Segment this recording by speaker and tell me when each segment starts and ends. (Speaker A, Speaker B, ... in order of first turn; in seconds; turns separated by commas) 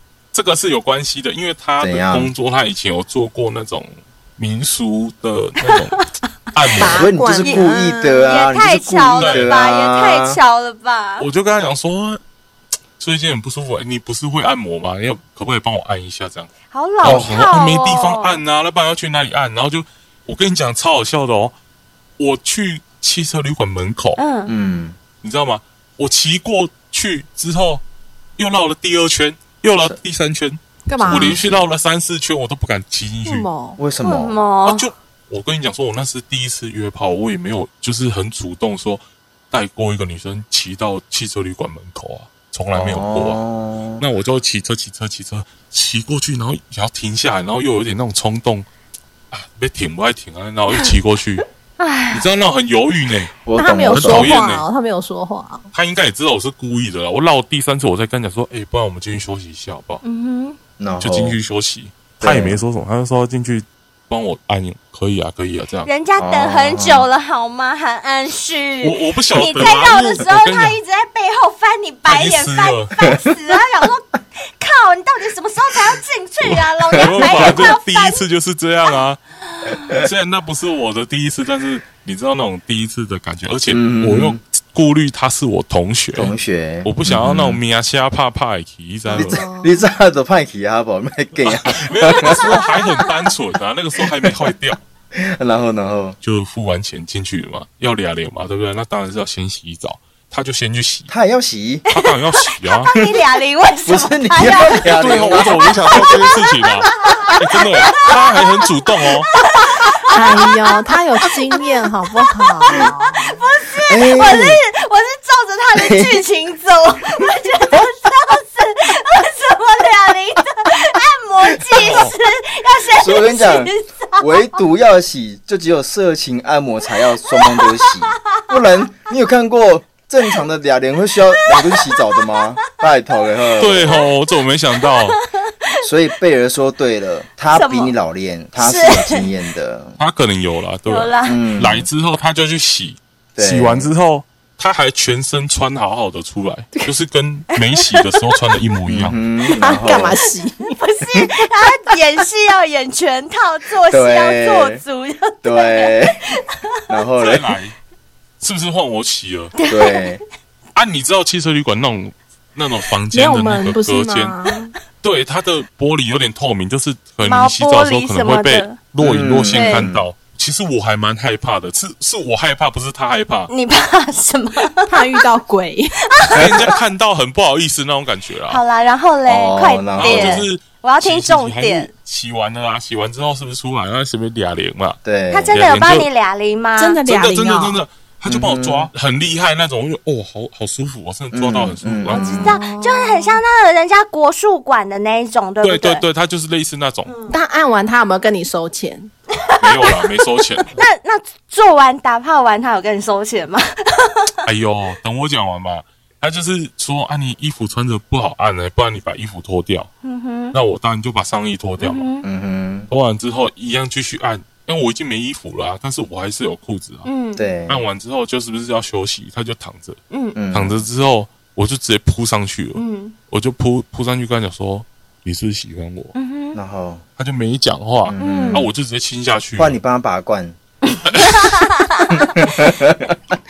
Speaker A: 0.3-7.1, Speaker B: 1.8-2.3, Speaker C: 6.8-8.4, Speaker B: 6.8-10.4, Speaker D: 7.4-7.7, Speaker D: 8.2-11.3, Speaker A: 9.1-9.5, Speaker A: 11.2-12.2, Speaker A: 13.0-21.5, Speaker D: 16.7-18.4, Speaker B: 17.0-17.4, Speaker A: 22.2-24.2, Speaker D: 24.2-24.5, Speaker B: 24.5-25.0, Speaker A: 25.2-27.8, Speaker A: 28.4-33.5, Speaker C: 30.9-31.4, Speaker B: 31.0-31.6, Speaker C: 33.2-33.8, Speaker B: 33.8-34.4, Speaker D: 34.0-34.9, Speaker A: 34.6-43.4, Speaker B: 42.7-44.0, Speaker A: 44.0-48.6, Speaker A: 49.3-51.4, Speaker D: 51.8-52.3, Speaker A: 52.1-53.3, Speaker B: 53.4-54.4, Speaker C: 53.5-55.7, Speaker A: 53.9-54.6, Speaker A: 55.7-60.0, Speaker D: 60.0-60.6, Speaker B: 60.8-61.4, Speaker A: 61.0-65.9, Speaker B: 62.2-62.6, Speaker D: 65.8-78.2, Speaker B: 66.2-67.1, Speaker A: 68.8-70.8, Speaker A: 72.0-72.9, Speaker A: 76.9-79.2, Speaker B: 77.0-77.7, Speaker D: 79.6-79.9, Speaker A: 79.9-89.4, Speaker B: 83.7-84.4, Speaker B: 86.1-87.6, Speaker B: 89.1-92.5, Speaker C: 89.1-89.8, Speaker A: 91.4-94.8, Speaker D: 92.2-93.1, Speaker B: 94.1-94.3, Speaker B: 95.1-96.2, Speaker A: 96.2-101.1, Speaker B: 101.1-101.8, Speaker D: 101.9-108.3, Speaker A: 101.9-102.9, Speaker B: 103.8-106.4, Speaker A: 104.8-109.3, Speaker D: 109.3-110.7, Speaker C: 110.1-113.4, Speaker D: 111.3-111.7, Speaker D: 112.4-124.2, Speaker B: 113.8-114.6, Speaker B: 115.7-116.2, Speaker A: 121.7-122.1, Speaker B: 121.8-122.0, Speaker B: 123.0-134.1, Speaker D: 127.2-128.4, Speaker D: 131.4-132.4, Speaker A: 133.6-135.2, Speaker D: 134.8-135.8, Speaker B: 135.8-140.0, Speaker D: 137.5-137.9, Speaker D: 138.6-139.3, Speaker A: 140.0-149.2, Speaker D: 140.8-141.4, Speaker B: 141.2-141.9, Speaker B: 143.3-143.9, Speaker D: 147.5-148.2, Speaker B: 148.9-150.2, Speaker C: 149.5-150.8, Speaker D: 150.7-156.4, Speaker B: 153.9-154.8, Speaker B: 155.4-156.2, Speaker B: 156.9-157.5, Speaker A: 157.2-157.7, Speaker A: 158.4-159.5, Speaker D: 159.6-160.1, Speaker B: 159.7-160.2, Speaker A: 160.7-164.4, Speaker C: 163.1-164.7, Speaker A: 165.0-173.5, Speaker D: 167.2-168.8, Speaker B: 169.0-170.0, Speaker D: 169.5-169.9, Speaker D: 173.5-175.2, Speaker C: 174.8-175.9, Speaker D: 176.1-176.7, Speaker A: 176.3-178.6, Speaker D: 178.5-181.9, Speaker B: 179.3-180.5, Speaker A: 180.0-186.1, Speaker B: 185.0-185.6, Speaker D: 185.3-187.0, Speaker C: 186.8-187.8, Speaker A: 187.0-192.6, Speaker B: 188.2-188.9, Speaker B: 191.3-192.6, Speaker D: 192.1-196.0, Speaker C: 192.2-193.4, Speaker A: 195.6-197.1, Speaker D: 197.1-197.3, Speaker C: 197.3-199.1, Speaker D: 199.3-200.1, Speaker A: 199.6-200.7, Speaker D: 200.7-204.4, Speaker A: 204.4-209.9, Speaker D: 210.0-210.6, Speaker A: 210.5-212.1, Speaker D: 211.8-212.3, Speaker B: 212.2-212.9, Speaker A: 212.9-217.1, Speaker D: 217.0-217.4, Speaker B: 217.3-217.8, Speaker A: 217.7-220.0, Speaker D: 220.1-220.4, Speaker B: 220.3-220.8, Speaker A: 220.5-226.1, Speaker D: 222.7-223.1, Speaker D: 226.1-226.6, Speaker B: 226.5-227.0, Speaker A: 227.2-229.8, Speaker B: 228.0-228.7, Speaker D: 228.2-228.7, Speaker B: 229.6-230.6, Speaker D: 230.9-232.4, Speaker A: 231.1-231.4, Speaker B: 232.1-233.1